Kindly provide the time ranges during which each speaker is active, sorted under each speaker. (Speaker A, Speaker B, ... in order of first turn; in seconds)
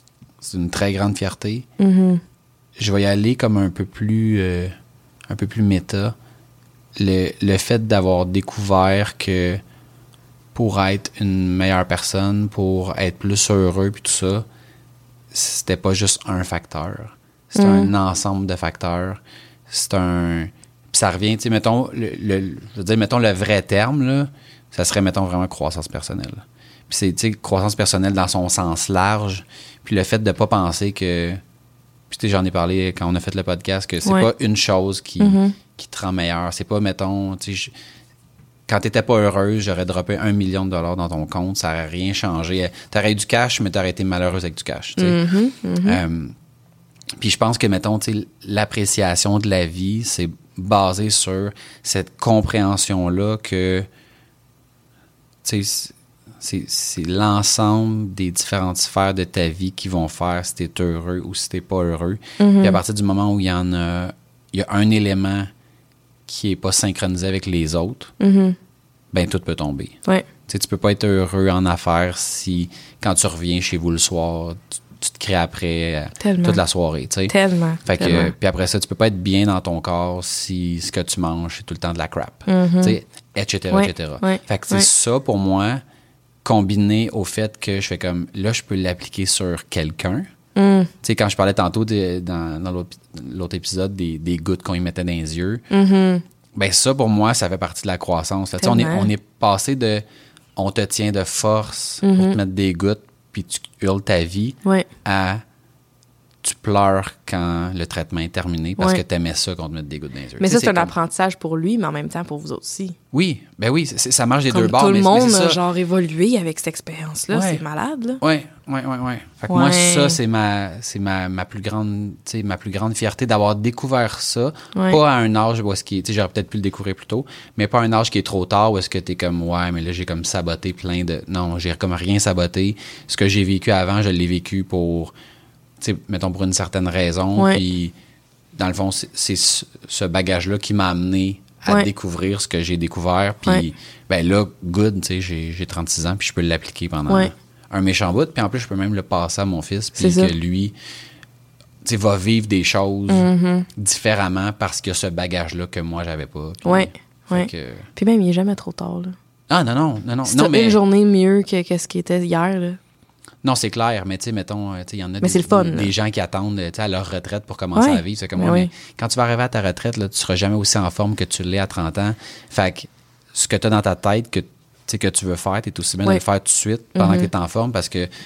Speaker A: 0.4-1.6, 2.8-4.7, 5.3-6.1, 7.0-9.6, 10.5-14.4, 15.3-31.4, 32.1-37.7, 38.7-45.2, 45.8-46.3, 47.2-53.9, 55.4-65.5, 66.3-68.1, 69.1-77.3, 77.8-85.8, 86.4-90.3, 91.0-95.6, 96.5-100.0, 100.5-105.4, 106.4-110.9, 113.1-115.6, 117.3-117.6, 118.2-135.1, 135.8-137.9, 138.6-150.7, 151.8-157.8, 159.5-160.8, 163.4-178.1
Speaker B: 1.8-2.2, 17.6-17.9, 35.2-35.5, 45.0-46.0, 62.4-62.8, 68.2-68.6, 76.2-76.6, 77.3-78.3, 82.5-83.0, 83.7-84.9, 90.5-90.9, 95.7-96.2, 98.6-99.1, 102.0-102.4, 110.4-113.0, 114.5-118.2, 119.5-120.2, 124.7-125.0, 137.3-137.6, 150.0-150.3, 153.1-153.7, 156.6-159.2, 160.2-162.8, 165.2-165.9, 167.7-168.7, 176.9-177.3